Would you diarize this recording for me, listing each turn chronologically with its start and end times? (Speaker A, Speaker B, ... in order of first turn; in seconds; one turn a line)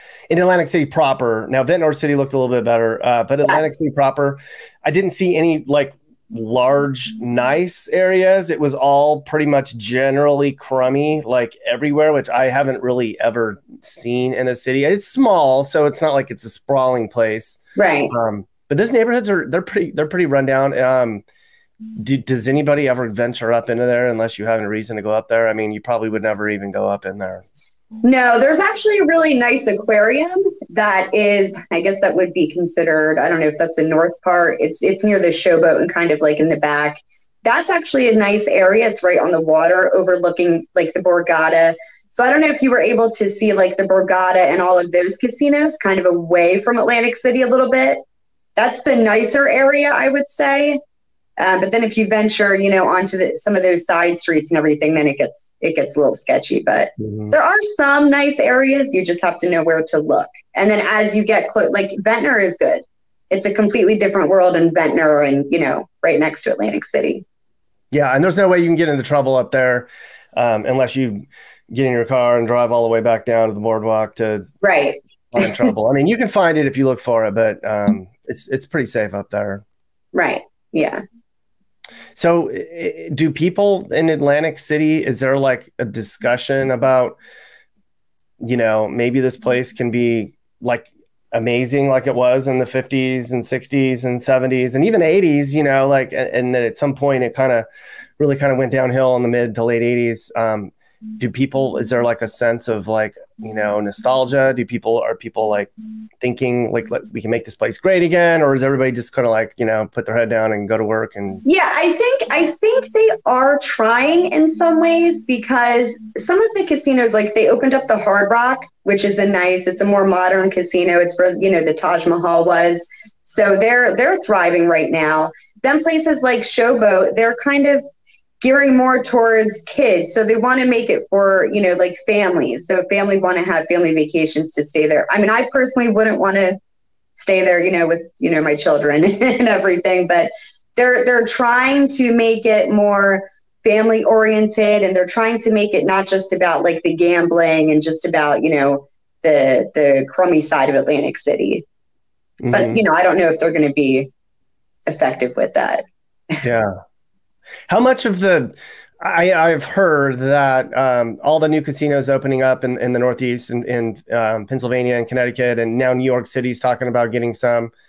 Speaker A: 0.3-21.2
Speaker B: 3.5-3.7
Speaker B: 17.8-18.1
Speaker A: 22.0-27.4
Speaker B: 28.0-48.0
Speaker B: 48.6-50.8
Speaker B: 51.4-67.2
Speaker A: 57.0-57.4
Speaker A: 67.9-74.5
Speaker B: 74.6-75.5
Speaker A: 75.3-79.6
Speaker B: 80.1-81.0
Speaker A: 82.2-87.2
Speaker A: 88.4-97.7
Speaker A: 98.2-111.4
Speaker B: 111.5-127.8
Speaker B: 128.4-136.6
Speaker B: 137.2-151.6
Speaker A: 152.4-152.8
Speaker B: 152.5-154.1
Speaker B: 154.9-156.4
Speaker A: 156.4-156.8
Speaker A: 157.7-167.7